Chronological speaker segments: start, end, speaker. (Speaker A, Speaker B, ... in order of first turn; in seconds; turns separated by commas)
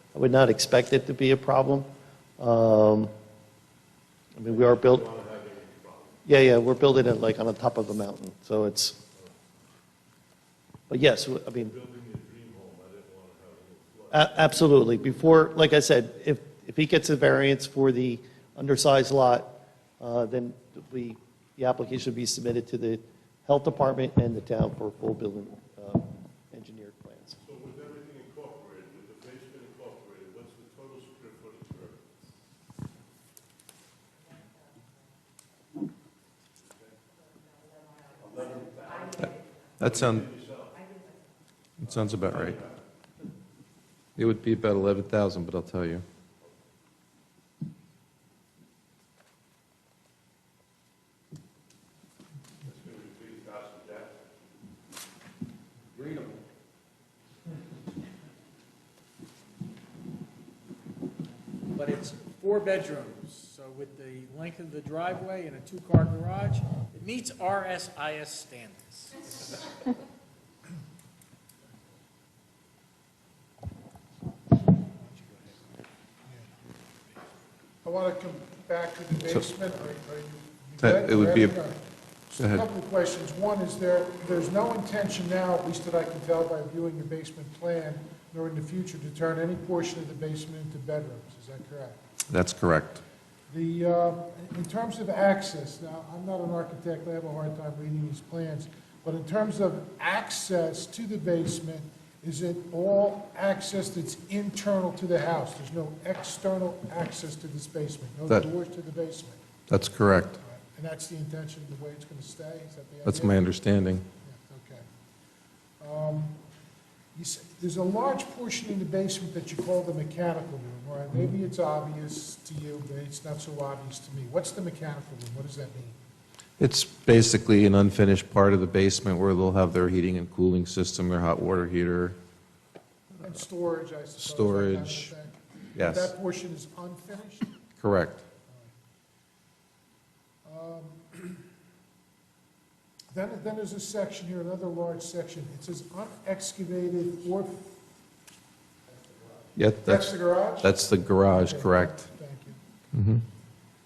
Speaker A: 0.1-1.9, Speaker A: 2.4-3.1, Speaker A: 4.4-5.0, Speaker B: 4.5-6.2, Speaker A: 6.3-9.0, Speaker A: 10.9-11.7, Speaker B: 11.5-14.5, Speaker A: 14.1-27.4, Speaker B: 27.4-32.1, Speaker B: 36.6-37.0, Speaker B: 38.2-40.9, Speaker C: 39.8-40.3, Speaker C: 41.8-42.6, Speaker B: 41.9-42.8, Speaker C: 44.2-46.0, Speaker B: 52.6-54.2, Speaker D: 56.0-56.4, Speaker D: 61.7-69.1, Speaker E: 77.8-92.0, Speaker C: 80.8-81.6, Speaker C: 92.3-93.0, Speaker E: 93.5-109.4, Speaker C: 109.7-110.4, Speaker E: 110.4-113.5, Speaker C: 113.0-114.0, Speaker E: 114.2-114.9, Speaker E: 115.8-116.4, Speaker E: 117.2-126.0, Speaker C: 126.6-132.2, Speaker E: 133.2-137.5, Speaker C: 134.2-135.1, Speaker C: 135.8-136.1, Speaker C: 137.8-138.2, Speaker E: 140.4-141.4, Speaker E: 143.1-147.8, Speaker C: 149.6-150.1, Speaker E: 149.8-152.6, Speaker C: 150.6-152.0, Speaker C: 152.9-153.2